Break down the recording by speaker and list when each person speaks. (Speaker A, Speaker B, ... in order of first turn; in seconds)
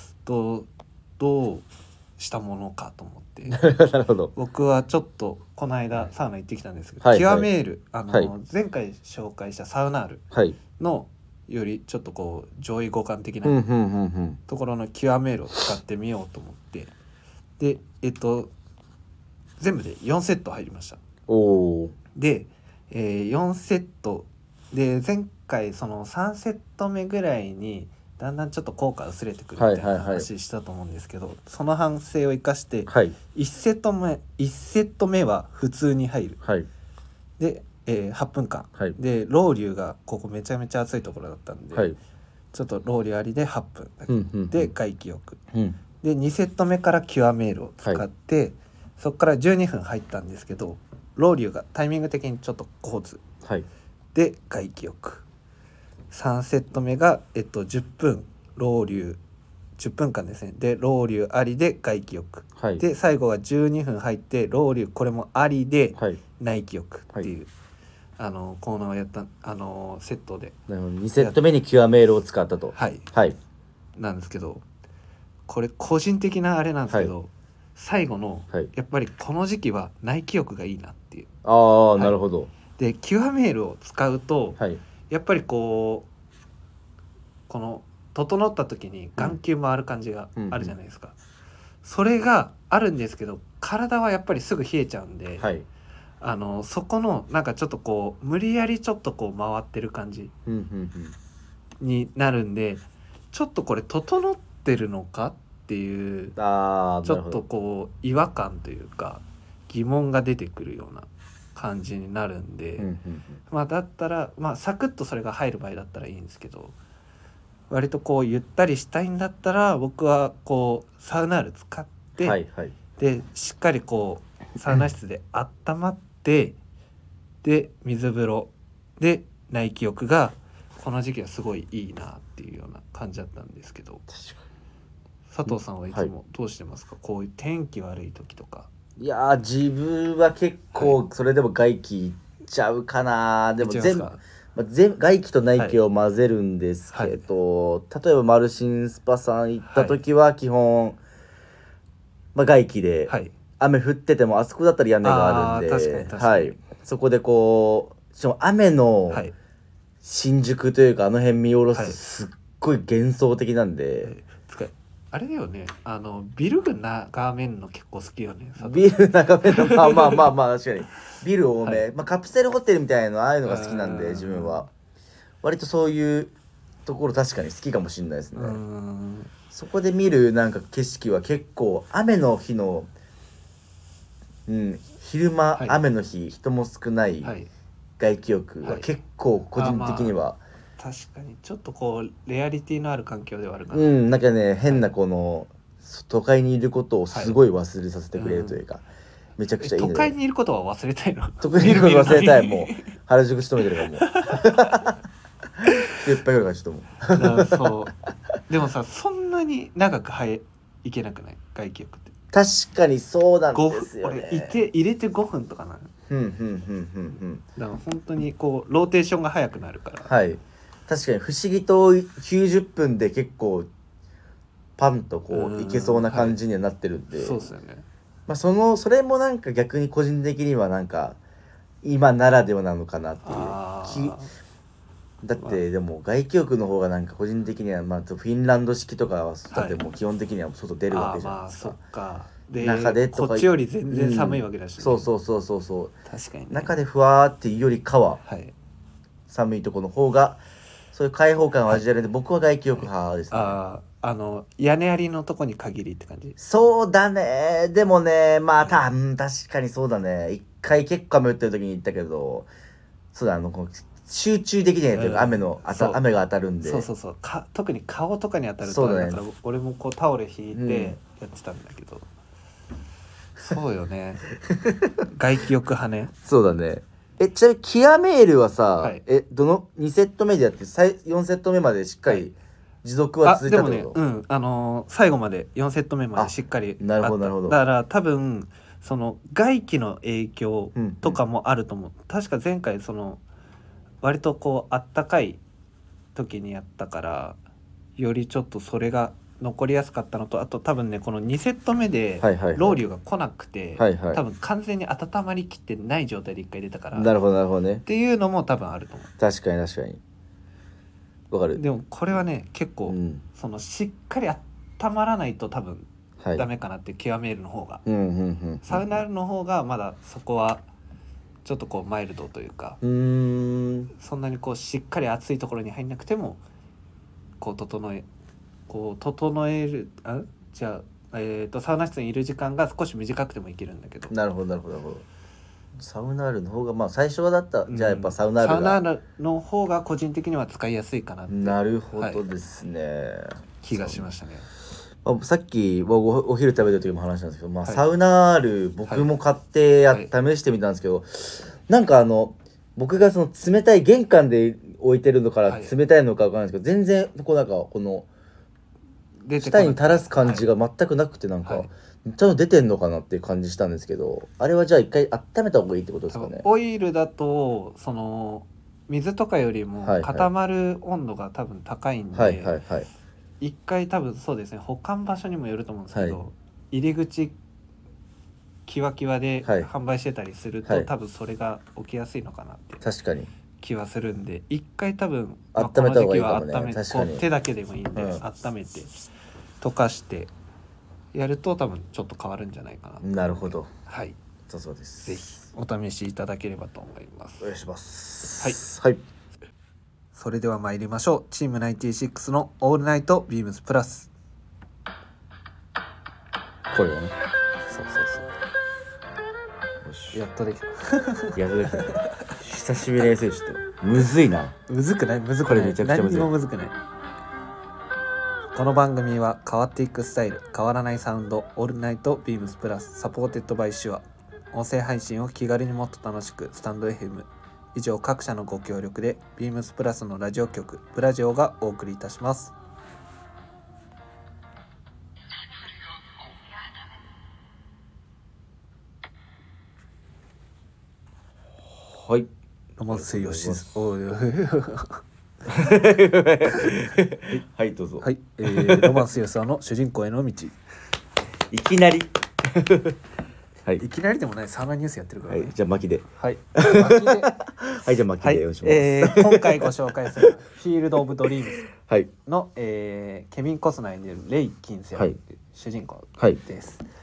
Speaker A: 0.2-3.6, 4.3-10.2, 10.8-13.6, 14.5-16.9, 17.6-18.5, 19.6-21.0, 22.1-36.4, 37.4-42.0, 42.5-45.4, 46.0-53.2, 54.1-55.2, 56.1-59.2, 59.8-67.5, 68.2-70.6, 72.8-73.1, 74.0-74.7, 75.5-81.3, 82.8-86.1, 87.5-91.2, 91.8-95.5, 96.2-100.3, 101.8-106.4, 107.0-112.9, 113.5-116.8, 117.7-122.4, 123.0-126.6, 127.4-134.1, 135.3-138.7, 143.6-144.2, 146.9-147.2, 149.7-150.0, 153.1-153.3, 155.0-156.6, 159.1-159.3, 164.0-170.3, 173.4-174.7, 178.3-179.3, 185.6-185.8, 187.2-187.5, 189.6-190.2, 190.8-193.9, 197.1-197.4, 198.2-198.6, 199.6-202.9, 204.0-204.9, 207.1-207.9, 208.5-212.1, 213.5-215.9, 217.6-220.1, 225.3-226.4, 227.2-227.9, 233.2-234.3, 235.4-235.6, 239.5-239.8, 240.9-245.1, 246.1-246.8, 248.2-248.5, 252.8-256.4, 264.9-266.0, 266.6-272.1, 273.4-274.3, 275.1-276.1, 283.2-293.2, 294.0-295.4, 296.1-297.4, 298.0-307.1, 307.9-309.1, 311.6-317.8, 318.6-320.6, 321.4-322.8, 324.0-326.4, 327.4-328.1, 328.7-334.1, 337.7-342.2, 343.6-344.5, 355.5-355.8, 359.2-360.5, 361.4-361.7, 366.1-372.6, 373.4-377.4, 378.7-382.8, 383.6-388.9, 389.6-390.3, 391.1-394.2, 395.1-397.5, 400.1-404.1, 407.7-408.2, 410.1-412.3, 414.7-416.8, 418.5-432.5, 442.8-445.0, 446.5-447.4, 448.0-450.6, 453.8-455.6, 456.2-457.3, 458.2-461.7, 462.3-466.8
Speaker B: 3.5-4.3, 7.0-7.5, 10.3-10.6, 13.4-14.4, 21.3-21.9, 29.6-30.3, 32.9-33.2, 36.4-36.7, 44.1-44.7, 45.5-45.8, 62.6-62.8, 70.7-73.4, 81.4-82.5, 90.4-90.8, 95.4-95.7, 100.5-101.2, 106.4-107.4, 112.8-113.4, 122.2-122.7, 134.1-134.4, 135.5-136.1, 139.0-151.0, 152.3-159.2, 160.0-164.1, 168.6-174.7, 175.4-176.3, 176.9-178.6, 179.5-182.9, 184.5-187.3, 188.0-190.4, 193.7-198.8, 199.4-200.1, 201.4-205.0, 205.6-207.9, 212.3-214.6, 216.1-217.4, 220.1-223.7, 224.8-227.4, 228.3-231.2, 231.8-234.2, 235.2-241.8, 242.6-245.9, 246.5-248.2, 249.3-250.4, 250.9-253.6, 256.4-262.5, 263.1-266.9, 268.6-269.2, 270.5-271.0, 274.6-274.9, 276.2-284.0, 286.2-287.6, 290.8-291.2, 302.2-302.8, 303.8-304.2, 306.9-307.8, 309.2-310.0, 311.3-311.6, 312.9-313.2, 316.2-316.5, 317.9-319.0, 322.8-323.9, 334.1-335.1, 335.8-338.8, 341.3-344.1, 345.0-358.1, 359.4-366.4, 369.8-370.3, 372.1-372.9, 375.9-376.2, 382.8-383.3, 385.6-387.3, 387.9-388.2, 393.0-393.7, 394.5-395.2, 397.4-399.0, 406.7-407.1, 409.8-410.2, 411.4-414.5, 415.4-416.3, 441.6-442.3, 442.9-443.8, 445.5-449.1, 451.5-453.0, 455.3-456.1, 456.6-460.3, 461.6-462.1